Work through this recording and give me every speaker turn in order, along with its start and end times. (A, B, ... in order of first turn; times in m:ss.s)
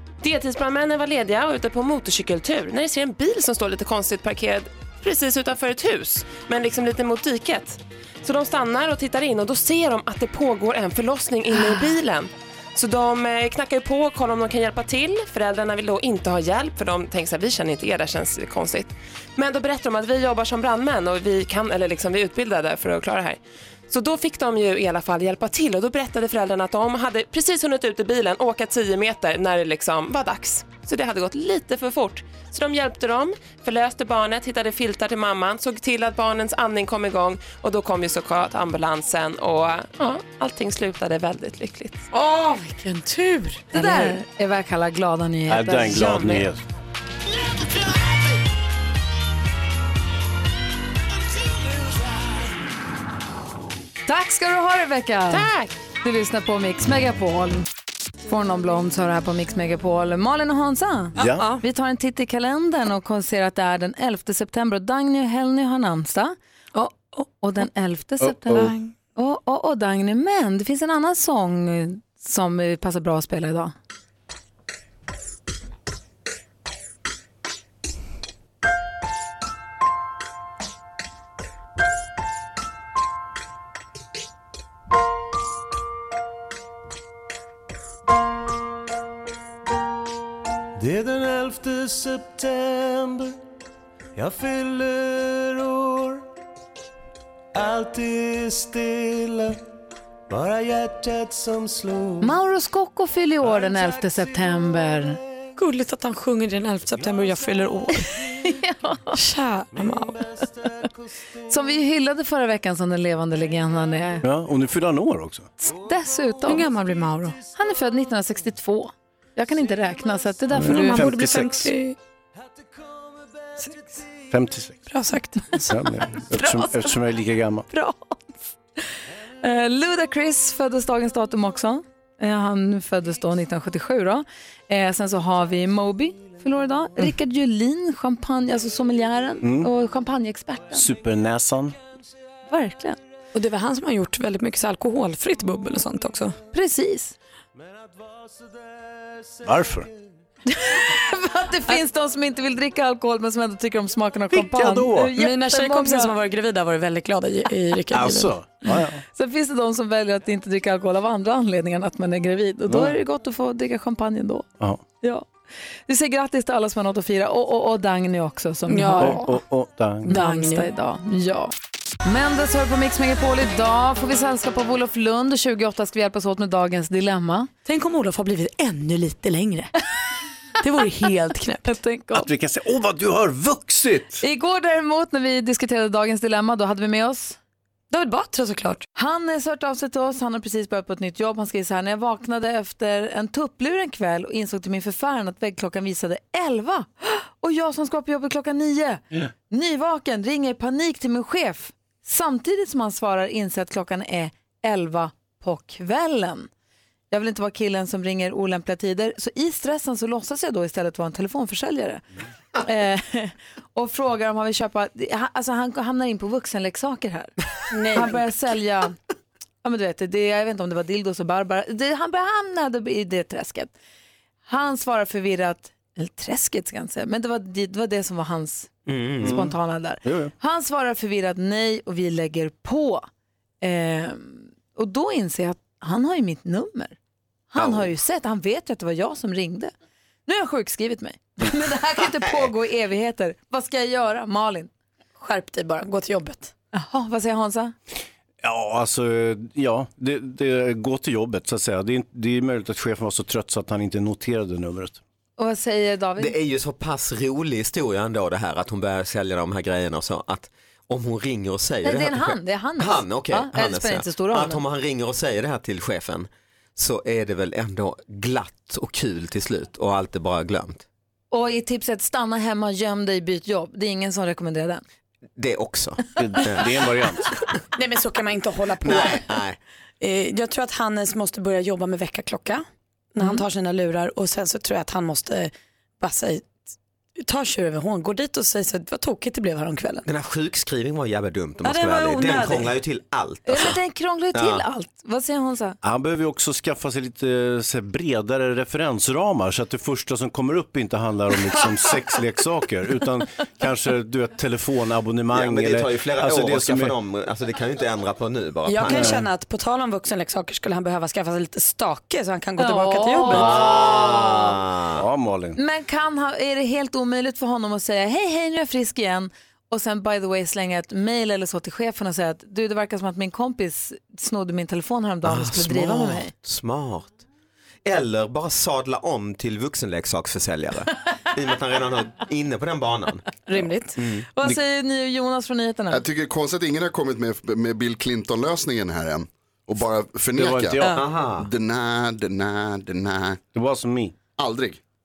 0:00.2-0:42.0 A
0:42.1-0:44.2 B
0:43.7-0:46.4 C
0:45.5-0:46.6 D
0:54.1-0:55.5 C
0:55.3-0:55.7 A
0:56.0-0:57.6 C
0:58.3-1:06.3 C
1:01.2-1:01.5 D
1:01.2-1:01.6 B
1:06.7-1:07.6 B
1:07.4-1:13.7 C
1:08.2-1:08.7 D
1:08.5-1:08.9 B
1:30.9-1:33.0 E
1:34.2-1:36.2 E
1:37.6-1:39.3 E
1:40.3-1:42.2 E
1:42.2-1:45.2 C
1:45.6-1:48.2 B
1:48.5-1:49.2 C
1:49.1-1:50.2 B
1:51.5-1:54.2 C
1:54.2-1:55.5 D
1:55.6-1:56.7 C
1:56.5-1:57.4 B
1:57.5-2:01.1 C
2:00.5-2:01.7 D
2:00.6-2:02.0 B
2:04.3-2:04.8 D
2:04.9-2:06.2 B
2:05.7-2:07.7 D
2:06.3-2:07.0 C
2:07.7-2:08.2 C
2:09.4-2:20.9 C
2:19.4-2:19.7 D
2:20.7-2:21.8 D
2:22.5-2:23.0 C
2:23.3-2:26.4 B
2:26.5-2:27.1 C
2:29.4-2:29.9 D
2:30.7-2:36.1 C
2:34.3-2:35.1 D
2:35.1-2:38.4 B
2:37.9-2:39.0 D
2:38.6-2:44.4 C
2:42.7-2:42.9 D
2:45.9-2:49.2 C
2:48.7-2:49.4 B
2:49.0-2:50.1 D
2:50.0-2:50.7 B
2:50.0-2:51.5 C
2:52.0-2:57.5 C
2:57.6-2:59.7 B
3:00.6-3:01.8 B
3:01.6-3:02.3 C
3:02.1-3:04.2 D
3:04.2-3:07.4 C
3:07.9-3:08.8 B
3:09.0-3:26.5 C
3:27.1-3:32.0 C
3:32.6-3:37.3 C
3:37.7-3:38.2 B
3:37.9-3:38.9 C
3:39.6-3:43.7 C
3:44.4-3:48.7 C
3:48.9-3:49.4 F
3:49.2-3:49.5 D
3:49.2-3:53.0 C
3:50.0-3:50.3 D
3:53.6-3:56.9 C
3:57.5-3:59.7 C
3:57.6-3:57.9 F
4:00.3-4:04.7 C
4:05.2-4:06.5 B
4:06.7-4:07.7 C
4:08.4-4:15.0 D
4:15.4-4:16.4 C
4:16.2-4:30.8 F
4:21.8-4:24.6 C
4:31.3-4:34.8 C
4:35.4-4:36.8 F
4:36.2-4:37.3 D
4:37.7-4:39.3 B
4:38.8-4:39.6 F
4:40.0-4:46.6 B
4:47.2-4:50.0 B
4:50.0-4:53.8 F
4:51.6-4:52.7 B
4:53.4-4:55.8 C
4:54.3-4:54.6 F
4:55.8-5:06.9 D
5:05.3-5:09.2 F
5:08.6-5:13.7 B
5:08.8-5:09.3 D
5:12.6-5:13.8 C
5:13.3-5:15.0 F
5:14.9-5:15.6 D
5:15.6-5:26.3 C
5:25.2-5:27.2 F
5:27.8-5:33.3 F
5:33.5-5:34.0 B
5:34.0-5:34.3 F
5:34.3-5:36.0 C
5:35.9-5:43.4 G
5:40.4-5:41.0 D
5:40.9-5:41.5 F
5:43.5-5:44.2 D
5:44.4-5:44.8 G